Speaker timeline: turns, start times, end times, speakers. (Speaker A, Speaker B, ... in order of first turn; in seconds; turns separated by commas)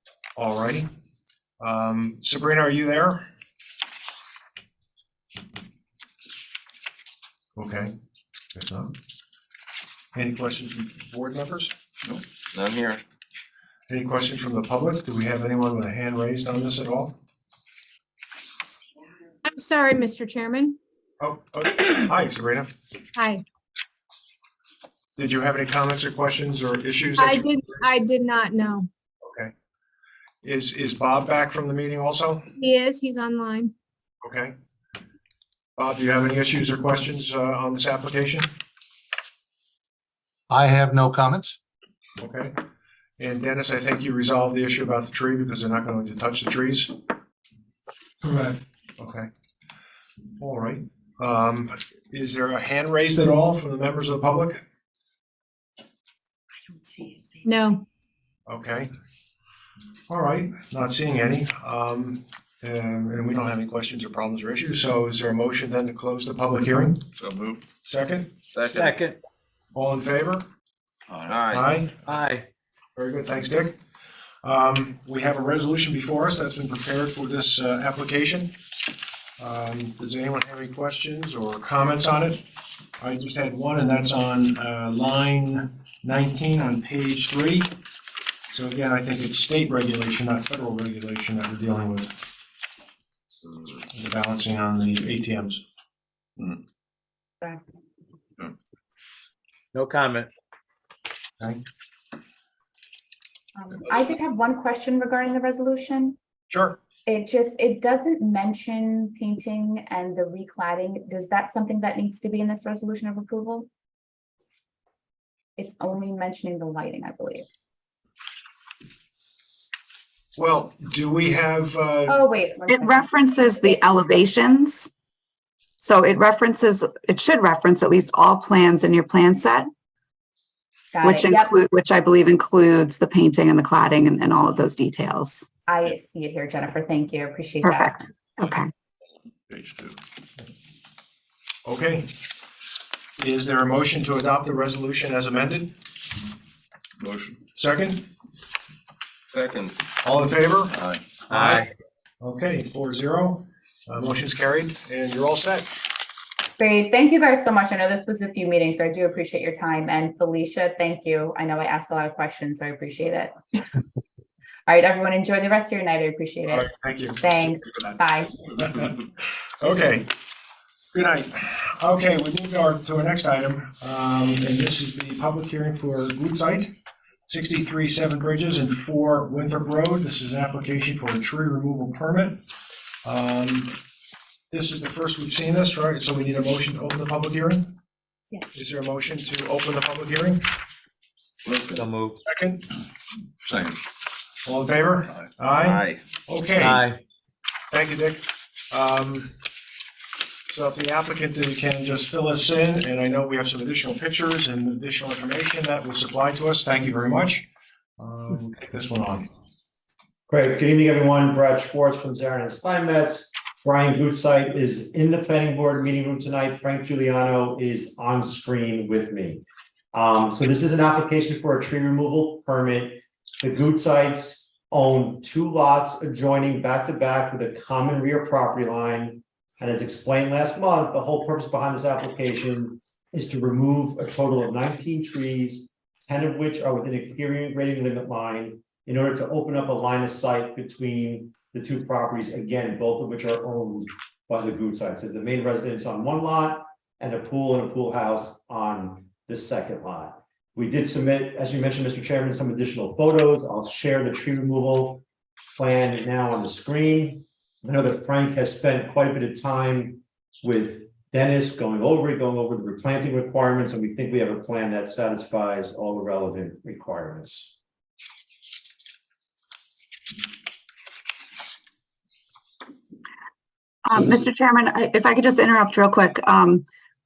Speaker A: 0.4-0.9, Speaker A: 1.6-3.2, Speaker A: 7.6-7.9, Speaker A: 8.6-8.9, Speaker A: 10.1-11.7, Speaker B: 12.0-13.0, Speaker A: 13.9-17.1, Speaker C: 19.4-20.8, Speaker A: 21.2-22.7, Speaker C: 23.1-23.4, Speaker A: 25.2-27.6, Speaker C: 27.2-28.9, Speaker A: 29.2-29.5, Speaker A: 30.4-32.5, Speaker C: 32.6-33.7, Speaker A: 34.2-34.5, Speaker A: 35.8-38.5, Speaker A: 42.2-42.5, Speaker A: 43.2-46.9, Speaker A: 48.2-49.3, Speaker A: 50.4-54.6, Speaker C: 57.4-57.8, Speaker A: 58.5-58.9, Speaker A: 60.1-67.0, Speaker B: 67.2-67.6, Speaker A: 67.8-68.3, Speaker B: 68.5-69.0, Speaker D: 68.7-69.2, Speaker A: 69.7-70.5, Speaker B: 71.1-71.8, Speaker A: 71.5-72.0, Speaker D: 72.1-72.5, Speaker A: 73.0-73.7, Speaker A: 74.4-78.5, Speaker A: 79.4-82.4, Speaker A: 83.0-87.7, Speaker A: 88.5-92.1, Speaker A: 93.9-95.6, Speaker D: 99.7-100.3, Speaker E: 103.5-106.2, Speaker A: 106.5-106.8, Speaker E: 107.1-113.7, Speaker E: 115.6-117.5, Speaker A: 120.4-122.2, Speaker E: 122.1-123.8, Speaker F: 122.7-124.9, Speaker F: 125.8-129.7, Speaker E: 130.9-131.5, Speaker F: 131.0-135.5, Speaker E: 135.7-138.0, Speaker F: 137.6-138.7, Speaker B: 139.5-140.0, Speaker A: 141.7-142.1, Speaker A: 143.2-145.7, Speaker B: 147.0-147.4, Speaker A: 147.6-148.0, Speaker B: 149.3-149.8, Speaker A: 150.0-150.8, Speaker B: 150.7-151.0, Speaker A: 151.3-151.7, Speaker D: 151.3-151.7, Speaker A: 152.2-155.8, Speaker E: 156.6-163.7, Speaker E: 164.7-166.7, Speaker A: 166.5-168.0, Speaker E: 167.2-168.4, Speaker A: 168.6-169.0, Speaker A: 169.6-170.1, Speaker A: 170.9-176.7, Speaker A: 177.3-182.4, Speaker A: 183.1-183.7, Speaker A: 184.5-187.7, Speaker A: 188.5-190.4, Speaker B: 191.4-191.9, Speaker D: 191.8-192.2, Speaker A: 192.2-192.6, Speaker B: 193.4-193.8, Speaker A: 194.4-196.8, Speaker B: 195.6-196.0, Speaker D: 196.6-197.0, Speaker A: 197.7-199.3, Speaker A: 200.5-207.4, Speaker A: 208.0-209.3, Speaker G: 210.3-219.4, Speaker G: 219.9-255.0, Speaker G: 255.6-267.5, Speaker F: 273.9-276.6